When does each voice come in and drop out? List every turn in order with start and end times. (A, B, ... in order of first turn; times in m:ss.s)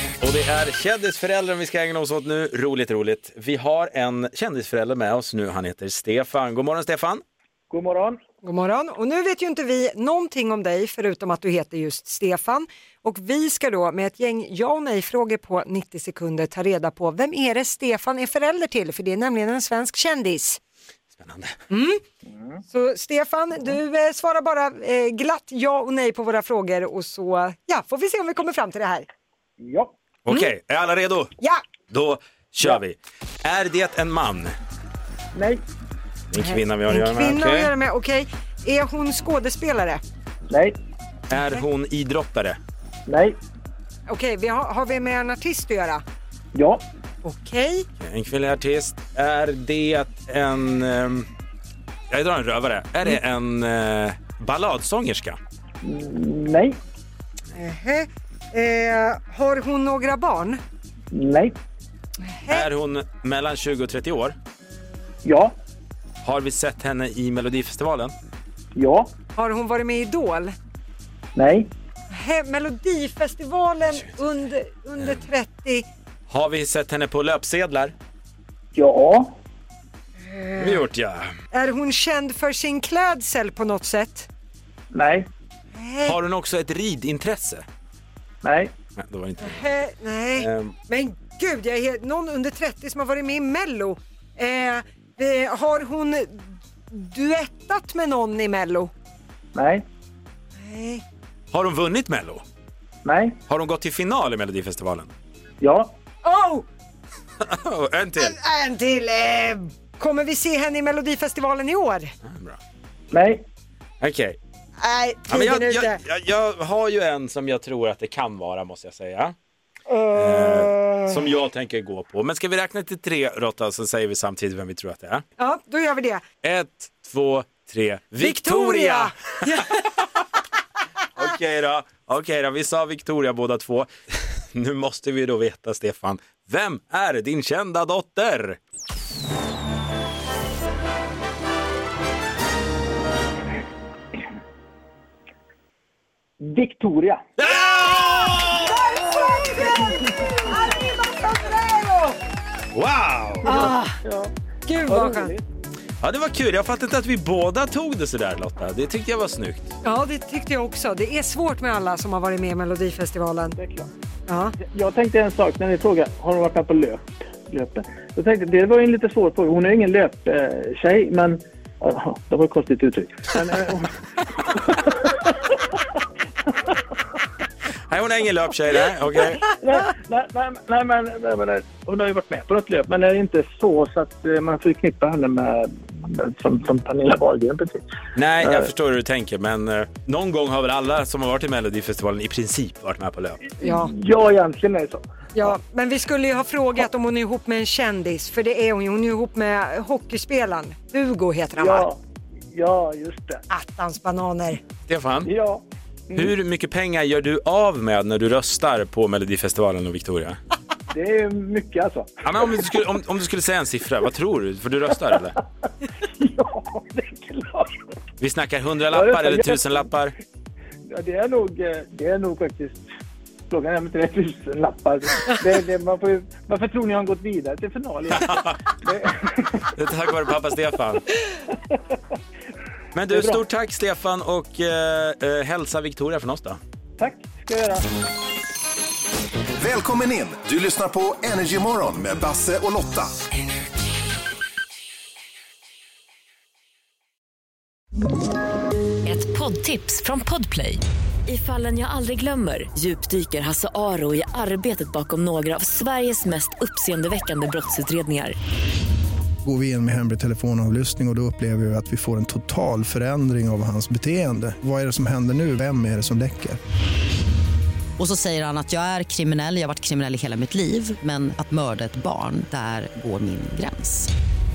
0:00.2-0:07.2 A
0:07.7-0:08.2 B
0:08.4-0:20.6 C
0:21.2-0:21.6 A
0:21.7-0:22.0 C
0:22.7-0:29.1 C
0:29.6-0:30.0 B
0:30.3-0:31.3 A
0:31.9-0:34.6 A
0:35.3-0:35.6 B
0:36.3-0:37.7 A
0:36.3-0:40.0 C
0:40.5-0:40.8 B
0:41.3-0:42.6 A
0:43.1-0:43.4 B
0:44.1-0:46.0 C
0:46.5-0:46.8 B
0:47.2-0:47.9 C
0:48.0-0:51.3 A
0:52.1-0:55.4 A
0:55.8-0:56.8 B
0:57.5-1:00.6 C
1:01.1-1:01.6 B
1:02.2-1:02.7 C
1:02.5-1:04.3 A
1:05.2-1:05.5 B
1:06.2-1:08.1 A
1:08.8-1:09.1 B
1:09.4-1:10.5 C
1:11.3-1:11.7 B
1:12.1-1:15.9 C
1:16.3-1:17.9 A
1:18.7-1:19.4 B
1:20.2-1:20.8 C
1:20.6-1:21.3 A
1:21.5-1:24.3 C
1:24.9-1:25.3 B
1:25.7-1:26.2 C
1:26.0-1:27.6 A
1:28.4-1:28.7 B
1:29.0-1:29.7 A
1:29.4-1:38.9 C
1:30.4-1:30.7 A
1:39.5-1:39.8 B
1:40.6-1:41.0 C
1:41.5-1:42.4 A
1:43.0-1:43.4 B
1:43.5-1:45.1 A
1:45.6-1:45.9 B
1:46.2-1:46.6 C
1:47.4-1:48.4 A
1:48.2-1:52.1 C
1:52.2-1:52.6 A
1:53.1-1:53.4 B
1:54.0-1:54.4 A
1:54.8-1:56.0 C
1:55.3-1:59.3 A
1:59.9-2:01.1 C
2:00.1-2:05.2 A
2:05.4-2:06.2 C
2:06.4-2:09.6 A
2:08.2-2:09.8 C
2:11.2-2:13.9 A
2:14.5-2:18.6 A
2:26.4-2:27.2 B
2:27.4-2:28.8 A
2:28.7-2:32.2 C
2:32.7-2:33.7 A
2:33.4-2:34.3 B
2:33.5-2:34.0 C
2:34.7-2:35.3 C
2:34.8-2:35.4 B
2:36.0-2:39.7 A
2:39.8-2:43.6 C
2:43.6-2:43.9 B
2:44.3-2:44.6 C
2:44.6-2:55.2 B
2:57.9-2:59.5 A
2:59.4-3:07.8 B
3:08.2-3:13.4 A
3:08.4-3:08.7 B
3:13.6-3:15.0 B
3:13.6-3:13.9 C
3:15.3-3:21.9 C
3:21.6-3:22.0 B
3:22.5-3:23.4 B
3:23.5-3:24.6 C
3:24.9-3:25.3 A
3:25.2-3:26.3 B
3:26.2-3:30.4 A
3:30.9-3:32.1 B
3:32.2-3:35.4 A
3:36.2-3:37.8 B
3:38.2-3:40.2 A
3:38.9-3:39.6 B
3:40.9-3:42.8 B
3:43.5-3:49.7 B
3:49.8-3:51.1 A
3:52.9-3:56.6 A
3:53.1-3:53.4 B
3:57.0-3:57.8 B
3:59.6-4:03.1 D
4:09.0-4:18.4 E
4:19.4-4:26.6 F
4:28.0-4:34.1 G